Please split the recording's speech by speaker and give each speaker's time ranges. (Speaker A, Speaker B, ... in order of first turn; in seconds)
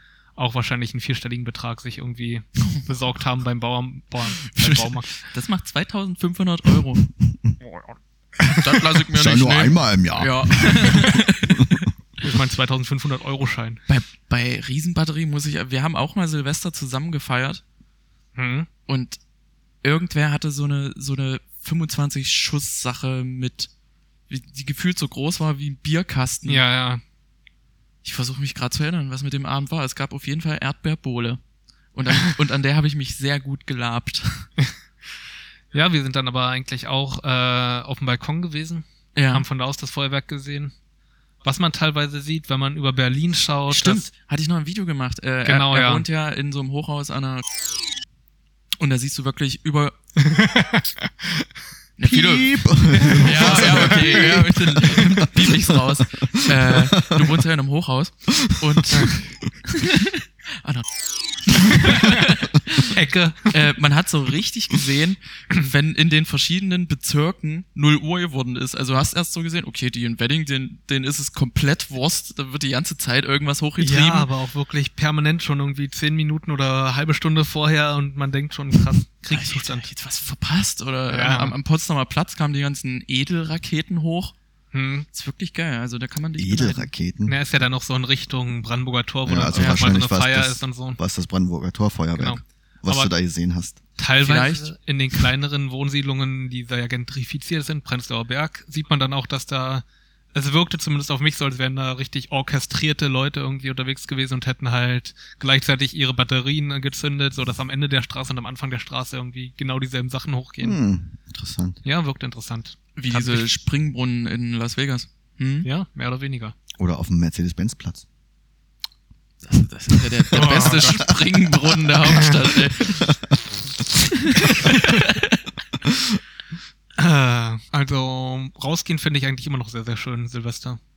Speaker A: 0.3-5.3, 7.6-7.9, 12.2-13.8, 18.4-18.7, 26.4-27.0, 35.7-40.7, 41.4-44.1, 45.4-46.0, 50.2-51.4, 52.9-55.0, 62.9-63.7, 73.8-79.9, 81.1-81.5, 84.7-85.1, 87.2-91.0, 92.1-93.1, 94.0-110.8, 111.8-113.6, 115.6-116.5, 120.3-121.2, 122.1-122.3, 124.5-124.8, 127.0-130.8
Speaker B: 4.5-7.0, 8.6-11.8, 13.9-17.6, 18.9-19.2, 19.8-23.7, 24.3-26.6, 28.0-31.4, 31.9-34.5, 39.1-39.4, 43.7-47.4, 48.8-50.0, 52.0-52.5, 53.2-60.9, 61.5-62.9, 63.5-74.3, 79.3-84.3, 85.1-86.9, 89.5-89.9, 94.2-94.7, 113.0-115.7, 119.4-123.0, 124.1-125.5
Speaker C: 8.9-11.1, 52.0-57.4, 86.4-87.4, 89.2-93.8, 110.6-111.8, 116.8-118.0, 120.4-121.2